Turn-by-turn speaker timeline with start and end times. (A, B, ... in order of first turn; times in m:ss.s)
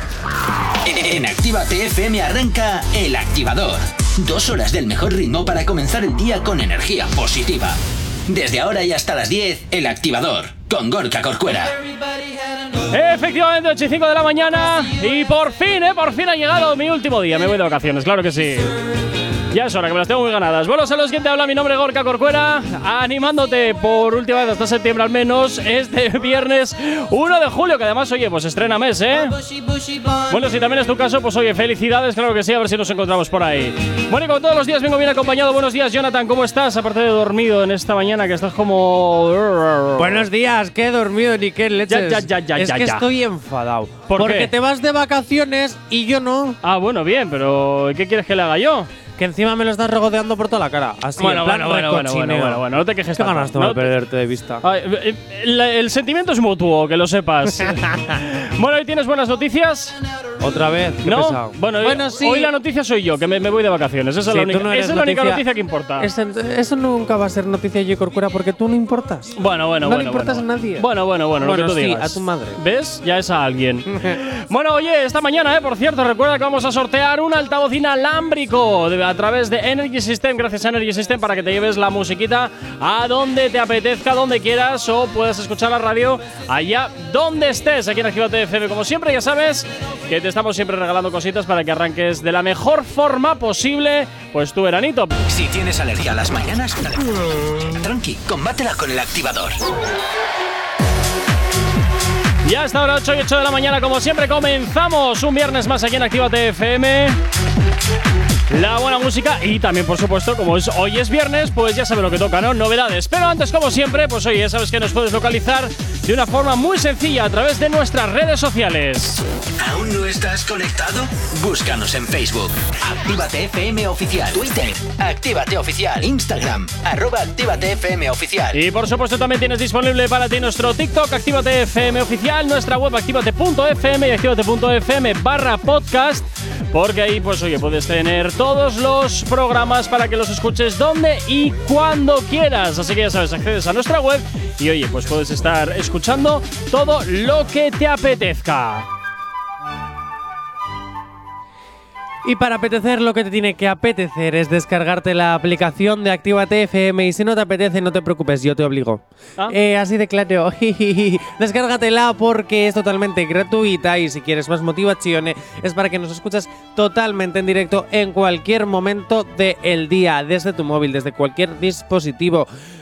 0:00.8-0:11.8 A
0:12.9-0:18.7 B
0:19.5-0:29.4 B
0:30.3-0:40.3 B
0:40.0-0:46.6 C
0:41.9-0:43.1 B
0:44.1-0:44.5 B
0:46.6-0:48.9 B
0:49.2-0:52.6 C
0:51.2-0:53.9 B
0:53.2-0:54.6 C
0:54.6-1:00.0 B
0:57.5-0:58.1 C
1:00.4-1:02.5 C
1:01.0-1:06.1 B
1:04.3-1:05.4 C
1:06.0-1:12.6 C
1:09.4-1:35.2 B
1:13.9-1:14.2 C
1:35.3-1:39.6 A
1:42.4-1:47.2 B
1:48.5-1:59.2 B
1:59.6-2:08.6 A
2:08.5-2:28.9 B
2:32.2-2:52.5 C